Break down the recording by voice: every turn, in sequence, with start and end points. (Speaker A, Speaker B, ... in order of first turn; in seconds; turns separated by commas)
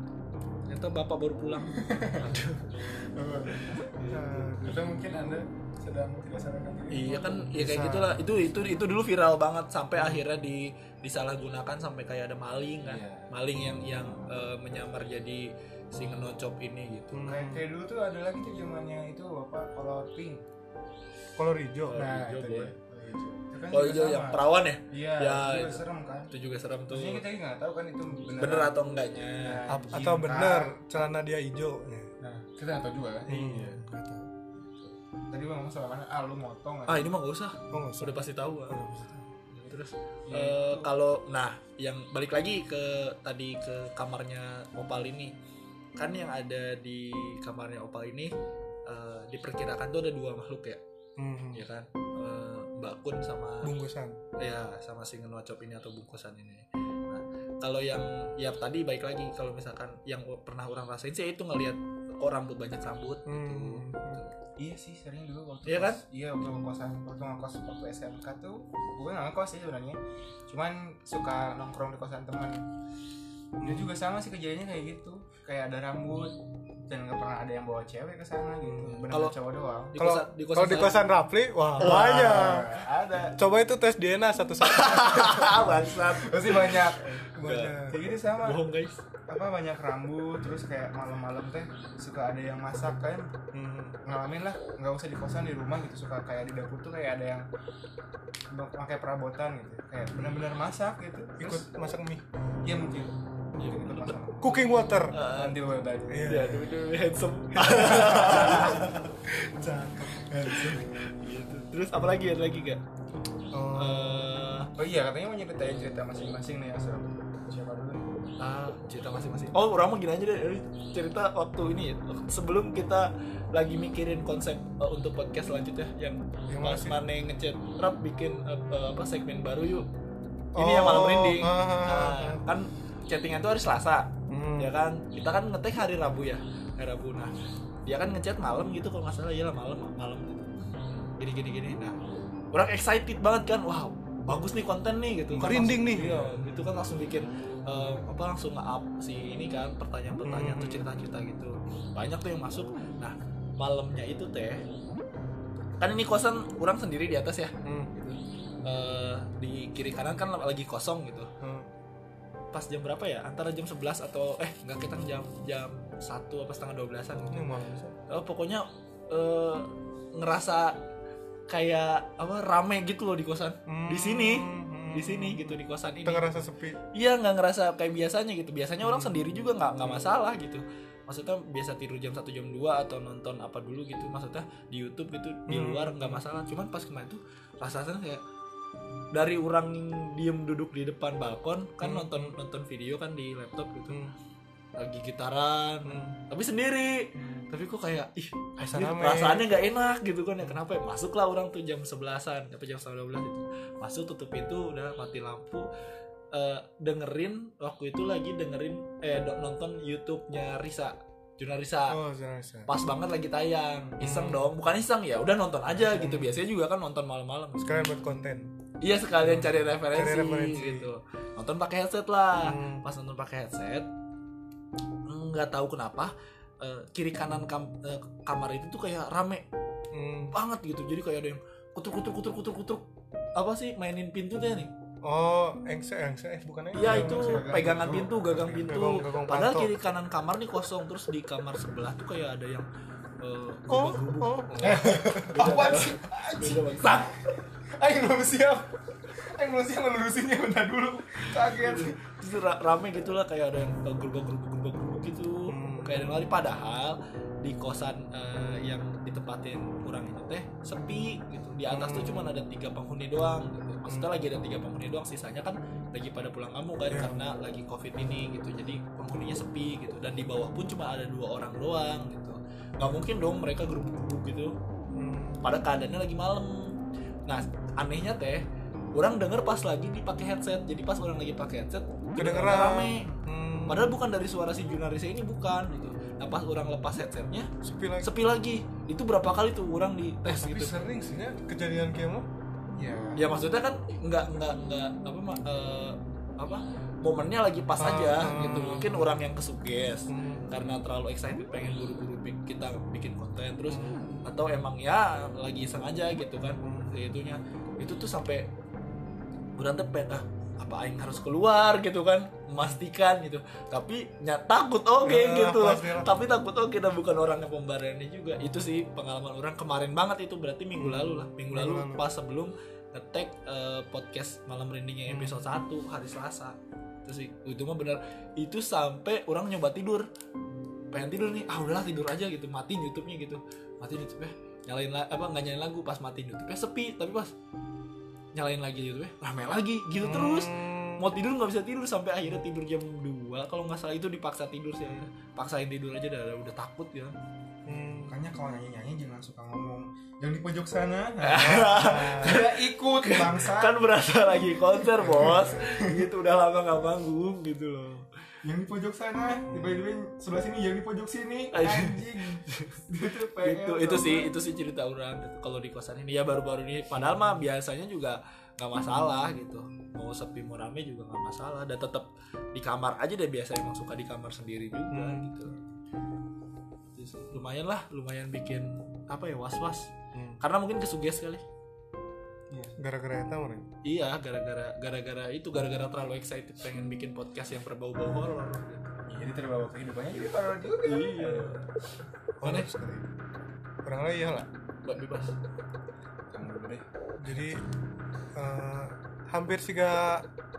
Speaker A: 0.7-2.8, Speaker B: 1.7-2.4, Speaker B: 3.0-7.5, Speaker A: 3.7-4.5, Speaker C: 4.1-5.0, Speaker A: 6.9-17.3, Speaker C: 7.5-8.3, Speaker B: 12.8-13.3, Speaker B: 14.0-14.3, Speaker C: 17.1-17.6, Speaker B: 17.3-20.4, Speaker C: 21.4-22.1, Speaker A: 21.9-22.7, Speaker B: 21.9-26.3, Speaker A: 23.7-27.2, Speaker B: 26.9-30.8, Speaker A: 28.4-29.6, Speaker C: 29.7-32.1, Speaker B: 32.2-33.8, Speaker C: 33.3-34.3, Speaker B: 34.6-37.1, Speaker A: 36.9-38.9, Speaker C: 37.7-39.2, Speaker A: 39.5-45.4, Speaker B: 40.3-40.9, Speaker A: 46.0-48.3, Speaker A: 48.9-50.8, Speaker C: 51.2-51.6, Speaker A: 51.5-53.7, Speaker C: 53.6-54.2, Speaker A: 54.4-64.3, Speaker C: 63.3-64.2, Speaker B: 64.6-72.6, Speaker A: 65.7-66.0, Speaker C: 73.6-73.9, Speaker B: 73.6-76.3, Speaker B: 76.9-80.0, Speaker C: 78.6-79.1, Speaker A: 79.1-79.4, Speaker A: 79.9-81.0, Speaker C: 80.0-82.8, Speaker A: 81.8-82.7, Speaker B: 81.8-83.4, Speaker C: 83.4-85.7, Speaker A: 84.6-87.8, Speaker B: 85.9-87.2, Speaker C: 87.4-88.0, Speaker B: 87.8-88.6, Speaker A: 88.4-89.0, Speaker B: 89.3-93.3, Speaker C: 93.5-94.0, Speaker B: 94.0-97.5, Speaker B: 98.5-101.7, Speaker C: 101.4-102.2, Speaker B: 102.6-106.4, Speaker A: 103.6-104.2, Speaker C: 104.4-105.2, Speaker A: 105.1-105.6, Speaker C: 106.1-106.7, Speaker A: 106.2-109.1, Speaker C: 107.7-109.0, Speaker B: 107.9-108.9, Speaker C: 109.6-110.2, Speaker B: 110.2-110.9, Speaker A: 110.4-112.8, Speaker C: 113.5-114.3, Speaker A: 113.8-114.7, Speaker B: 114.8-118.0, Speaker A: 118.4-129.9, Speaker C: 126.5-127.0, Speaker C: 130.6-132.4, Speaker A: 130.6-137.3, Speaker C: 134.3-134.7, Speaker A: 137.9-142.0, Speaker A: 142.5-154.7, Speaker C: 145.3-146.4, Speaker C: 150.2-151.0, Speaker A: 155.8-161.3, Speaker C: 157.6-157.9, Speaker C: 161.4-161.7, Speaker A: 162.5-167.5, Speaker C: 167.3-168.0, Speaker A: 168.1-170.8, Speaker A: 171.5-176.4, Speaker C: 173.7-176.8, Speaker A: 176.9-188.2, Speaker C: 178.8-179.1, Speaker C: 185.5-186.2, Speaker A: 189.1-194.0, Speaker C: 191.8-192.3, Speaker A: 194.8-205.7, Speaker C: 195.9-196.2, Speaker C: 198.6-199.5, Speaker A: 206.3-212.0, Speaker C: 211.9-212.7, Speaker A: 212.7-217.7, Speaker C: 214.0-214.5, Speaker C: 215.7-216.4, Speaker C: 217.6-218.5, Speaker A: 218.8-223.9, Speaker C: 219.2-220.9, Speaker C: 222.4-222.8, Speaker A: 225.1-229.5, Speaker C: 229.9-230.3, Speaker A: 230.3-234.7, Speaker C: 235.0-237.5, Speaker A: 236.7-242.7, Speaker B: 236.8-238.8, Speaker C: 238.6-239.7, Speaker A: 243.2-247.2, Speaker C: 243.7-245.5, Speaker B: 244.6-252.0, Speaker A: 251.4-274.6, Speaker C: 255.5-256.2, Speaker C: 261.7-262.4, Speaker C: 266.9-267.2, Speaker C: 274.9-275.4, Speaker A: 275.4-283.1, Speaker C: 282.2-284.0, Speaker A: 283.7-287.5, Speaker C: 287.6-288.1, Speaker A: 288.0-290.9, Speaker C: 290.3-292.3, Speaker B: 292.8-293.2, Speaker A: 293.1-308.5, Speaker C: 297.8-299.2, Speaker C: 300.1-300.5, Speaker C: 303.7-304.2, Speaker C: 306.6-307.0, Speaker A: 309.6-330.1, Speaker C: 315.0-316.2, Speaker C: 320.8-322.1, Speaker C: 325.1-325.6, Speaker A: 330.9-337.3, Speaker A: 338.4-347.2, Speaker C: 340.0-341.1, Speaker C: 347.7-348.2, Speaker B: 348.1-354.2, Speaker A: 351.2-358.1, Speaker C: 351.4-352.4, Speaker B: 354.8-356.1, Speaker C: 355.0-355.8, Speaker B: 358.4-364.3, Speaker A: 361.5-362.8, Speaker A: 363.4-375.6, Speaker C: 374.9-375.6, Speaker A: 377.0-381.4, Speaker C: 380.1-380.4, Speaker C: 382.7-383.7, Speaker A: 383.8-389.0, Speaker B: 389.1-391.6, Speaker A: 390.9-391.7, Speaker C: 392.4-393.1, Speaker A: 392.4-392.7, Speaker C: 393.9-394.5, Speaker A: 394.9-395.4, Speaker B: 396.3-396.9, Speaker C: 397.2-397.6, Speaker C: 398.4-400.3